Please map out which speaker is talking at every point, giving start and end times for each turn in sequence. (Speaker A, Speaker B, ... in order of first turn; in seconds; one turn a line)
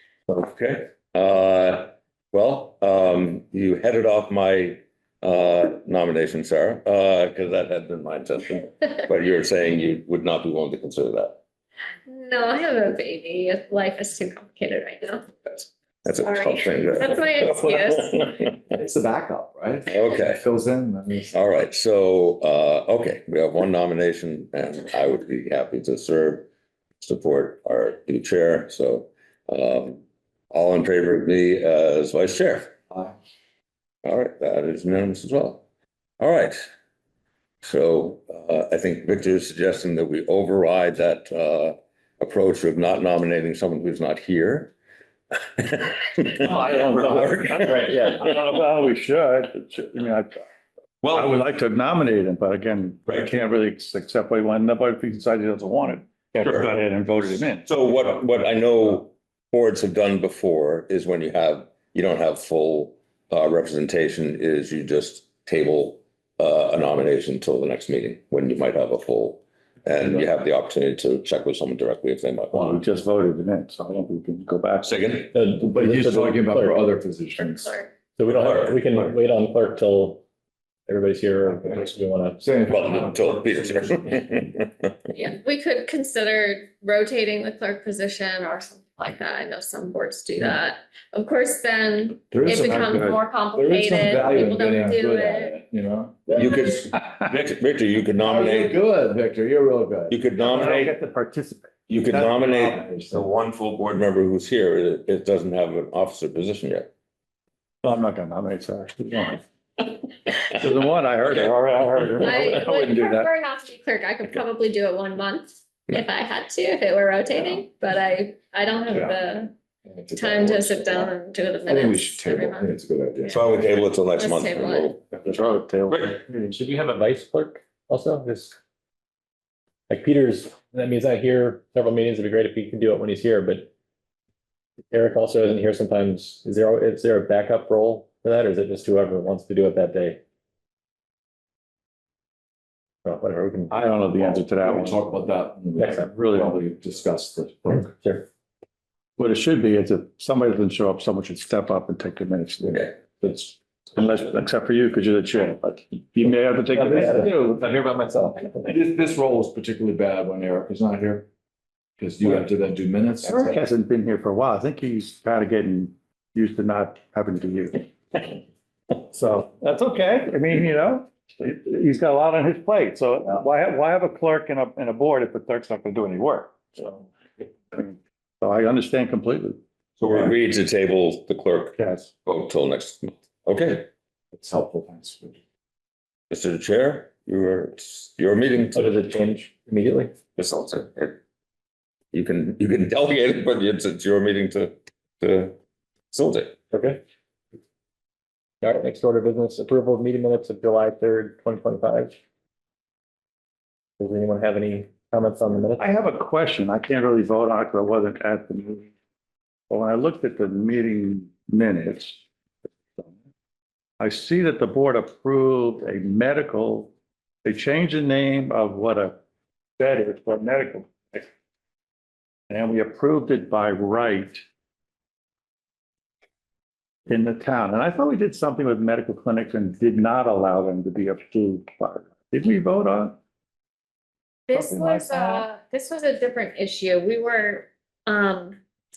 Speaker A: 0.3-11.4
Speaker B: 12.1-15.3
Speaker A: 16.1-18.7
Speaker B: 16.2-18.1
Speaker C: 18.7-21.4
Speaker A: 19.9-20.4
Speaker A: 21.3-26.5
Speaker A: 27.0-32.7
Speaker A: 34.0-35.6
Speaker A: 36.2-36.6
Speaker A: 37.6-44.7
Speaker A: 45.4-48.3
Speaker D: 46.4-50.4
Speaker E: 47.7-48.1
Speaker A: 51.0-51.3
Speaker D: 51.1-57.7
Speaker A: 56.4-56.7
Speaker A: 57.6-72.8
Speaker D: 72.5-75.0
Speaker A: 74.8-75.3
Speaker E: 75.3-76.8
Speaker C: 75.5-77.7
Speaker B: 77.6-77.9
Speaker E: 78.2-80.2
Speaker A: 78.3-78.8
Speaker E: 80.9-82.4
Speaker C: 82.4-83.9
Speaker A: 82.7-84.9
Speaker B: 85.1-95.5
Speaker C: 92.3-96.5
Speaker A: 96.3-98.8
Speaker C: 98.2-100.2
Speaker A: 100.1-100.9
Speaker D: 100.4-102.7
Speaker A: 101.9-106.9
Speaker C: 102.2-103.3
Speaker D: 107.8-109.4
Speaker D: 110.5-113.3
Speaker B: 112.2-119.5
Speaker C: 119.9-123.4
Speaker B: 120.1-122.7
Speaker A: 123.3-125.1
Speaker B: 124.2-124.9
Speaker D: 125.1-126.5
Speaker A: 125.9-126.2
Speaker E: 126.4-128.6
Speaker E: 129.9-133.7
Speaker E: 134.9-140.2
Speaker E: 143.1-143.7
Speaker D: 143.7-145.0
Speaker C: 144.2-147.9
Speaker E: 145.8-146.1
Speaker D: 146.0-146.6
Speaker E: 147.8-148.3
Speaker D: 149.2-157.3
Speaker E: 156.7-158.7
Speaker C: 156.8-157.4
Speaker C: 158.6-161.3
Speaker C: 162.0-163.6
Speaker D: 163.2-168.3
Speaker D: 169.1-177.1
Speaker D: 177.7-179.6
Speaker A: 180.0-183.9
Speaker D: 181.8-182.1
Speaker C: 184.3-185.4
Speaker A: 186.3-189.1
Speaker E: 188.7-190.2
Speaker A: 190.3-191.2
Speaker A: 192.1-195.6
Speaker A: 196.1-196.6
Speaker E: 196.7-197.0
Speaker E: 198.6-202.2
Speaker E: 204.0-205.8
Speaker D: 205.8-208.9
Speaker D: 209.7-212.2
Speaker D: 214.0-216.9
Speaker D: 217.4-219.2
Speaker D: 219.8-221.3
Speaker D: 222.5-224.4
Speaker D: 227.1-233.2
Speaker B: 234.5-238.6
Speaker D: 234.6-235.4